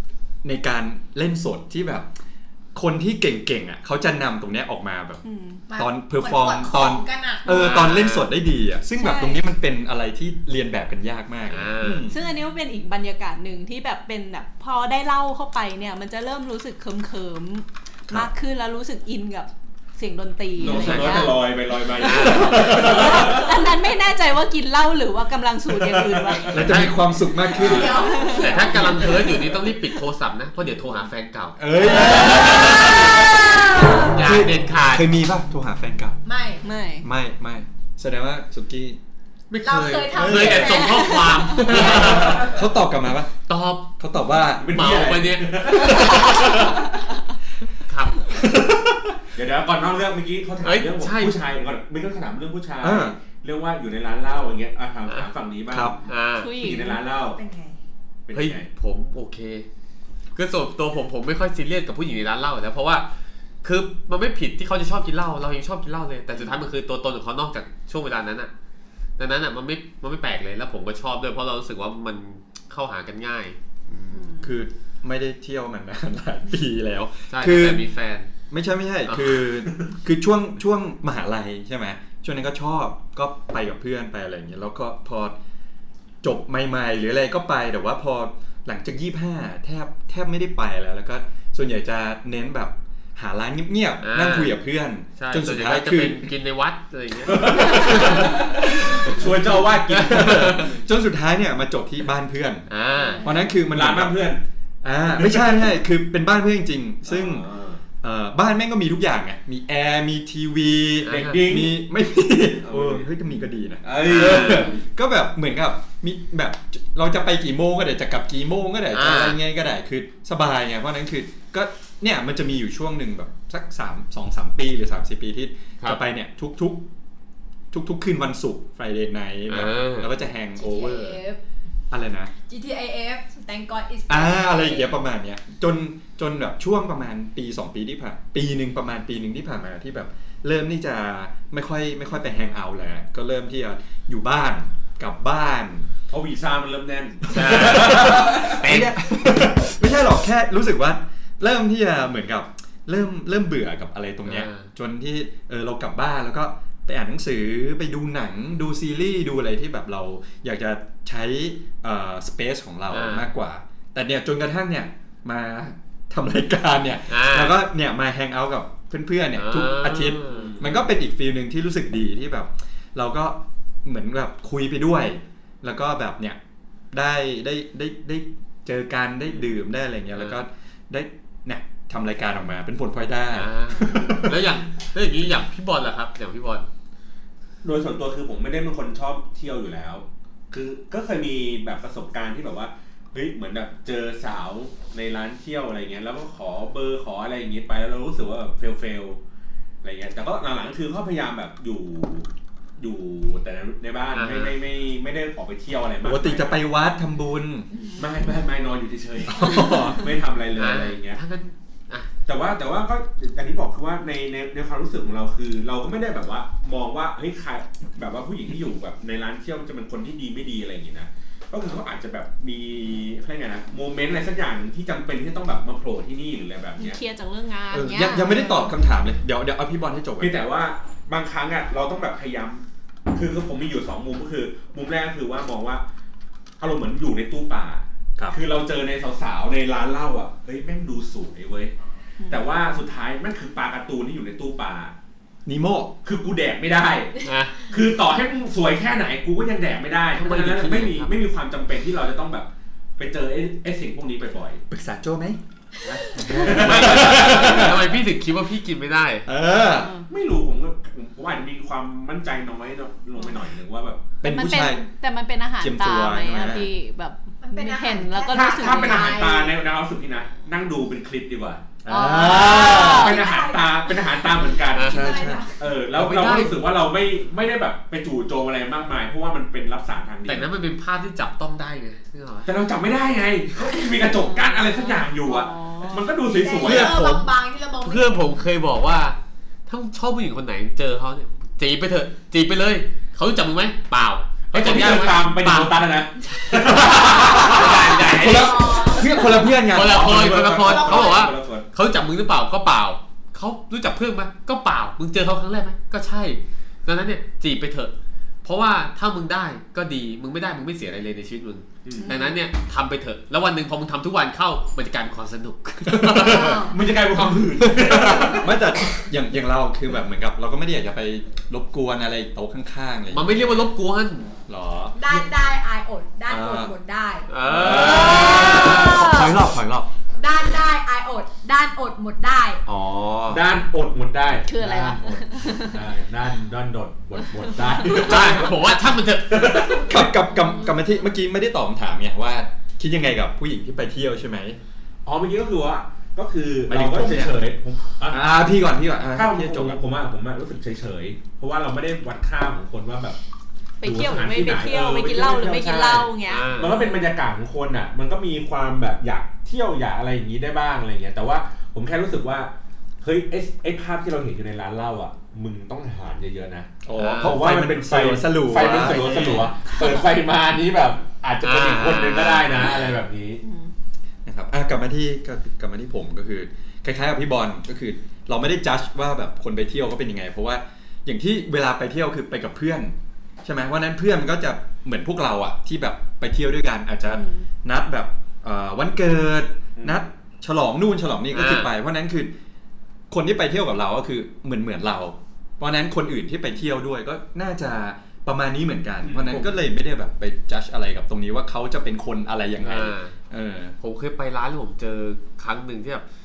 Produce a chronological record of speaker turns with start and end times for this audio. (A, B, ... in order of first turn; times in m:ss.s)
0:00.4-0:02.1 A
0:02.7-0:12.2 A
0:05.2-0:05.6 B
0:05.7-0:07.6 C
0:07.5-0:08.3 D
0:09.0-0:09.4 B
0:11.5-0:12.1 D
0:12.1-0:21.4 B
0:20.6-0:23.6 E
0:20.6-0:21.1 A
0:20.7-0:21.1 D
0:22.0-0:23.1 D
0:22.2-0:26.8 B
0:22.4-0:23.2 A
0:25.7-0:26.8 E
0:26.5-0:28.1 A
0:26.6-0:27.0 D
0:27.5-0:29.4 C
0:27.5-0:28.0 E
0:28.0-0:28.4 B
0:28.3-0:33.2 D
0:31.6-0:36.2 A
0:34.0-0:35.1 D
0:36.2-0:36.6 C
0:36.6-0:37.0 B
0:37.0-0:39.0 A
0:39.5-0:42.5 D
0:39.6-0:41.5 C
0:40.1-0:40.8 A
0:40.6-0:41.6 B
0:41.5-0:43.4 A
0:41.9-0:42.6 E
0:43.5-0:43.9 D
0:44.0-0:44.9 A
0:44.6-0:46.1 E
0:44.7-0:46.7 D
0:47.9-0:48.3 D
0:48.3-0:49.1 A
0:49.3-0:56.0 E
0:50.6-0:51.4 D
0:52.8-0:53.1 A
0:55.7-0:56.0 A
0:56.0-0:56.5 D
0:56.4-0:57.0 B
0:56.5-0:57.4 E
0:57.3-0:57.8 C
0:58.3-0:58.7 E
0:58.3-0:59.7 D
1:00.3-1:03.1 D
1:03.6-1:08.5 D
1:09.2-1:14.3 D
1:14.1-1:14.4 B
1:14.4-1:17.8 A
1:17.3-1:18.3 D
1:18.5-1:25.4 A
1:19.0-1:19.5 D
1:26.2-1:36.3 A
1:34.0-1:34.6 D
1:35.2-1:39.2 D
1:37.3-1:40.6 E
1:37.7-1:39.1 A
1:39.9-1:40.8 D
1:40.0-1:42.7 A
1:42.7-1:43.2 D
1:43.2-1:44.3 A
1:43.6-1:44.4 E
1:44.8-1:47.5 A
1:45.1-1:45.7 E
1:47.0-1:47.8 E
1:48.0-2:06.8 A
1:51.0-1:51.4 D
1:51.1-1:51.8 E
1:52.6-1:53.0 E
1:53.8-1:54.7 E
1:54.0-1:54.7 D
1:58.9-1:59.4 D
2:07.7-2:11.2 A
2:09.5-2:10.1 D
2:10.5-2:11.4 C
2:11.9-2:12.3 A
2:12.5-2:14.9 C
2:14.1-2:25.9 A
2:26.1-2:28.6 E
2:27.3-2:56.4 A
2:27.3-2:29.0 D
2:34.2-2:34.7 D
2:42.9-2:43.3 D
2:47.1-2:47.6 D
2:49.4-2:50.6 D
2:50.3-2:50.8 E
2:56.9-3:04.4 A
3:00.1-3:00.4 D
3:03.3-3:06.7 D
3:07.6-3:19.2 E
3:19.8-3:26.6 E
3:24.1-3:24.5 D
3:26.0-3:27.7 A
3:28.0-3:31.2 E
3:29.3-3:30.1 A
3:30.6-3:32.1 D
3:32.3-3:47.0 E
3:46.8-3:48.7 B
3:47.7-3:50.4 A
3:50.2-3:55.8 E
3:56.6-4:01.7 E
4:02.3-4:04.9 E
4:05.4-4:05.9 A
4:06.0-4:14.6 E
4:07.2-4:07.6 D
4:10.2-4:11.1 D
4:14.7-4:15.4 A
4:15.8-4:17.8 E
4:16.1-4:17.9 A
4:16.5-4:19.3 D
4:19.2-4:19.9 A
4:19.7-4:20.0 B
4:20.1-4:24.0 E
4:24.2-4:24.8 A
4:24.2-4:29.5 B
4:25.6-4:26.7 A
4:27.4-4:29.5 C
4:28.3-4:31.6 E
4:31.8-4:33.0 A
4:31.9-4:33.2 B
4:32.2-4:34.2 C
4:32.4-4:35.0 E
4:34.7-4:35.1 D
4:34.8-4:35.6 C
4:34.8-4:35.5 A
4:35.6-4:40.5 E
4:36.0-4:36.6 D
4:36.1-4:36.5 A
4:40.3-4:42.5 D
4:42.4-4:47.0 E
4:44.1-4:46.0 B
4:46.2-4:48.3 C
4:46.6-4:55.9 D
4:54.5-4:58.0 E
4:56.4-4:59.0 D
4:56.8-5:00.2 A
4:58.2-4:59.0 C
4:59.6-5:07.9 D
4:59.7-5:01.7 E
5:00.6-5:01.3 C
5:08.4-5:16.6 D
5:11.8-5:12.1 E
5:12.0-5:12.3 B
5:15.9-5:23.7 A
5:16.3-5:16.7 B
5:16.6-5:19.0 E
5:23.1-5:24.3 D
5:24.5-5:25.3 A
5:25.0-5:29.0 C
5:26.3-5:26.7 A
5:27.3-5:28.8 D
5:27.5-5:29.9 A
5:27.5-5:28.9 E
5:28.0-5:29.3 B
5:30.2-5:32.6 C
5:32.7-5:33.4 A
5:33.3-5:38.7 E
5:34.5-5:35.8 B
5:37.8-5:39.9 D
5:38.1-5:38.5 A
5:39.3-5:40.0 E
5:39.8-5:44.6 A
5:45.0-5:48.2 E
5:46.7-5:47.4 A
5:48.1-5:49.8 A
5:49.1-5:53.2 E
5:53.8-5:57.0 B
5:53.8-6:02.5 E
5:56.3-5:56.8 D
6:03.0-6:13.4 E
6:06.8-6:09.5 A
6:07.0-6:07.4 D
6:08.8-6:09.4 D
6:11.4-6:12.9 D
6:13.4-6:13.7 B
6:14.2-6:32.3 A
6:27.1-6:27.4 B
6:29.8-6:30.1 E
6:31.3-6:31.7 D
6:33.1-6:43.7 A
6:39.0-6:39.5 E
6:42.6-6:43.2 D
6:43.8-6:46.0 D